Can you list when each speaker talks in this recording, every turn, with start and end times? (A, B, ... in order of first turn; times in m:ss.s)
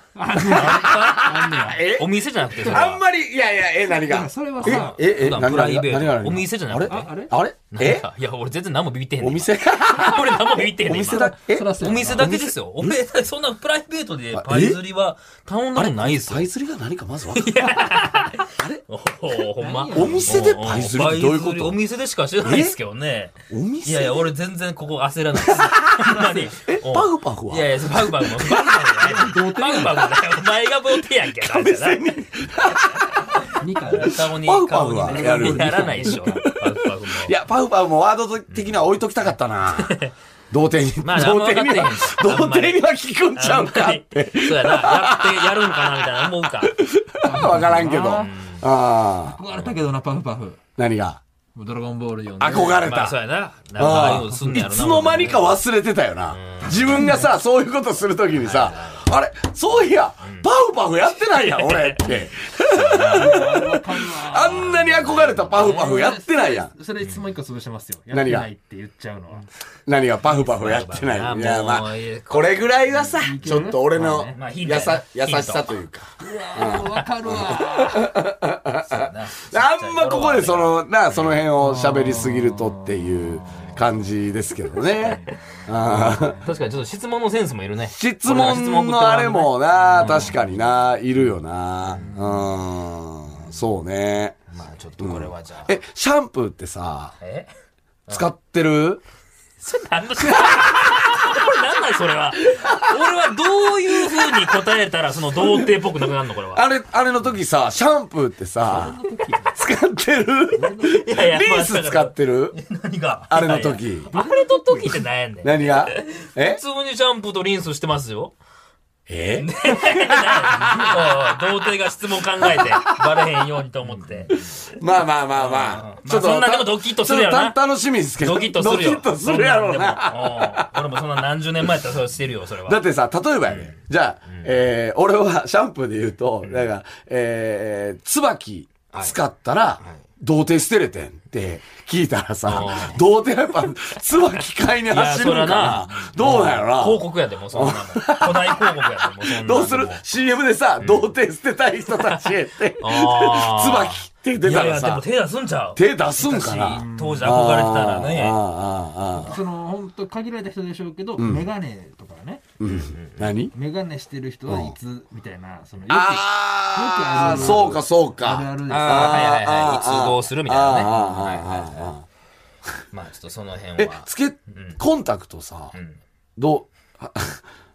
0:00.1-0:01.8 A
0:00.3-0:08.0 B
0:00.4-0:01.4 C
0:01.9-0:03.0 C
0:03.9-0:05.0 A
0:04.6-0:07.1 C
0:06.9-0:07.4 A
0:07.7-0:16.4 C
0:09.2-0:13.0 B
0:11.2-0:12.3 A
0:14.3-0:14.8 B
0:15.8-0:17.9 B
0:17.4-0:37.4 C
0:18.6-0:18.8 B
0:19.6-0:20.4 A
0:19.9-0:21.8 B
0:22.4-0:22.8 B
0:23.5-0:24.3 B
0:25.5-0:29.2 B
0:29.0-0:30.1 A
0:31.3-0:40.0 B
0:33.5-0:34.2 A
0:35.0-0:36.4 A
0:38.5-0:40.1 C
0:40.5-0:49.4 B
0:41.0-0:46.8 C
0:47.2-0:48.3 A
0:47.4-0:48.7 C
0:49.2-0:50.6 A
0:50.8-0:51.2 B
0:51.5-0:52.8 A
0:52.4-0:53.2 B
0:52.8-0:55.6 C
0:53.8-1:06.7 B
0:56.3-0:57.2 C
0:56.9-0:57.2 A
0:58.3-0:59.1 C
1:00.2-1:00.5 C
1:01.3-1:03.8 C
1:03.1-1:09.4 A
1:04.6-1:06.1 C
1:07.0-1:07.3 C
1:08.1-1:08.5 B
1:09.9-1:26.4 B
1:10.2-1:13.2 C
1:13.2-1:14.3 A
1:14.0-1:15.8 C
1:16.4-1:18.1 A
1:16.6-1:17.5 C
1:18.8-1:23.8 C
1:24.8-1:31.3 C
1:27.9-1:34.4 B
1:31.9-1:32.5 C
1:33.3-1:33.6 C
1:34.5-1:35.8 C
1:35.0-1:37.1 B
1:37.2-1:37.5 C
1:38.1-1:39.0 B
1:39.6-1:46.6 C
1:43.9-1:44.4 B
1:45.4-1:45.9 B
1:46.5-1:52.6 B
1:48.6-1:49.6 A
1:50.5-1:51.0 A
1:50.9-1:58.4 C
1:53.3-1:54.1 B
1:54.1-1:55.0 A
1:55.4-1:56.6 B
1:59.1-2:01.3 B
1:59.4-2:07.6 C
2:02.4-2:02.8 B
2:04.3-2:10.8 B
2:08.2-2:12.8 C
2:12.6-2:35.0 B
2:13.4-2:14.6 C
2:16.4-2:16.7 C
2:18.9-2:19.2 C
2:22.4-2:23.0 C
2:24.9-2:30.0 C
2:30.8-2:31.1 C
2:31.9-2:38.4 C
2:35.8-2:39.4 B
2:36.7-2:37.4 A
2:39.2-2:42.5 A
2:41.2-2:41.5 B
2:42.6-2:43.5 B
2:42.6-2:43.4 C
2:43.5-2:49.3 A
2:44.5-2:44.8 B
2:45.9-2:52.0 B
2:47.2-2:47.7 C
2:48.7-2:52.0 C
2:52.9-2:54.8 C
2:53.8-2:55.8 B
2:56.4-2:57.4 B